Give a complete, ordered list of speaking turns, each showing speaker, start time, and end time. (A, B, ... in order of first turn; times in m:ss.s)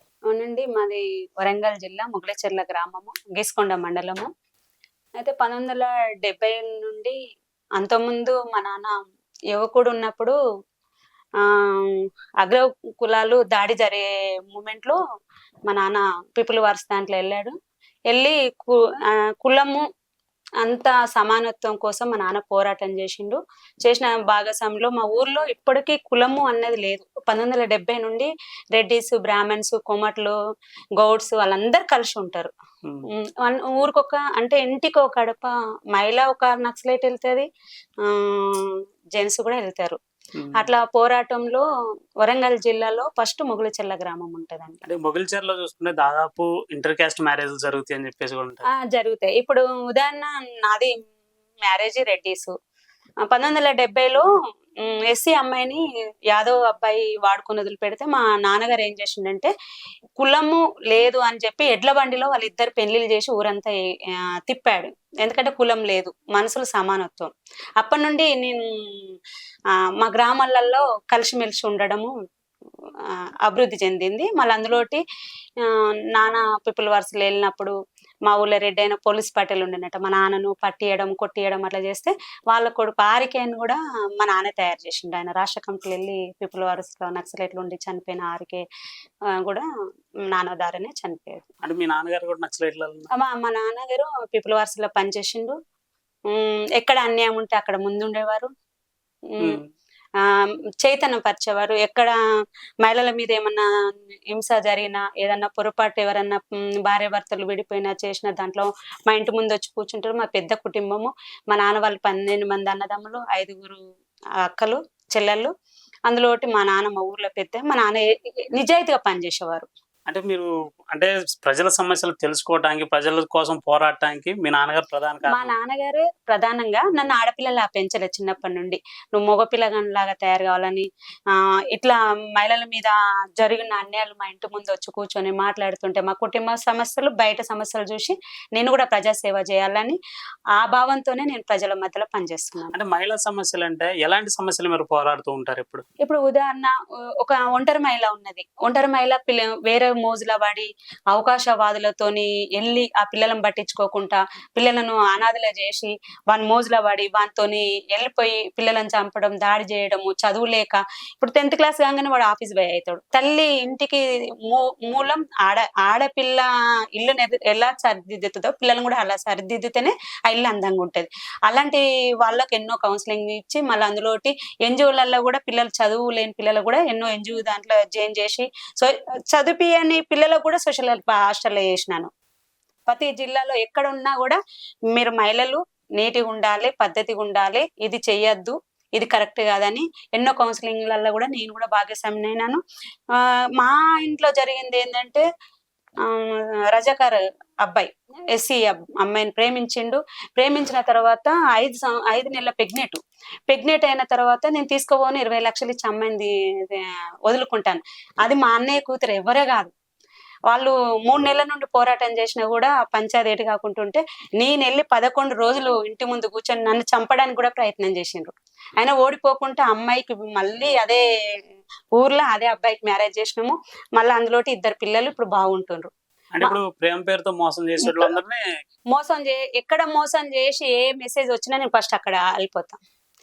0:00.3-0:04.3 A
0:05.2-0:07.2 A
0:07.8-0:09.0 A
0:09.5-0:10.3 A
0:11.4-0:15.0 A
0:15.7-0:17.5 A
0:18.1-0:19.8 A
0:20.6-0:30.4 A
0:31.0-0:32.5 A
0:33.1-0:37.5 A
0:38.0-0:40.0 A
0:40.4-0:40.6 B
0:40.6-0:41.6 A
0:42.2-0:44.8 A
0:44.8-0:48.6 B
0:48.7-0:51.0 A
0:51.6-0:52.5 A
0:53.3-0:54.2 A
0:54.8-0:59.5 A
1:00.2-1:09.2 A
1:10.0-1:12.1 A
1:13.1-1:15.0 A
1:15.6-1:17.7 A
1:18.2-1:28.6 A
1:29.3-1:29.6 A
1:30.3-1:31.4 A
1:31.6-1:33.1 B
1:33.1-1:35.6 A
1:36.3-1:38.5 A
1:39.3-1:39.6 A
1:39.4-1:39.6 B
1:40.2-1:42.1 A
1:42.8-1:43.7 A
1:44.3-1:53.8 A
1:54.4-1:55.5 A
1:56.1-1:58.0 A
1:58.5-1:59.7 A
2:00.1-2:05.5 B
2:05.3-2:20.0 A
2:20.5-2:22.7 A
2:22.7-2:25.8 B
2:26.0-3:02.1 A
3:02.9-3:04.4 A
3:04.9-3:12.6 A
3:13.1-3:15.2 A
3:16.0-3:29.7 A
3:30.5-3:41.0 A
3:41.9-3:45.9 A
3:46.3-3:48.4 B
3:47.8-3:48.1 A
3:48.9-3:52.8 A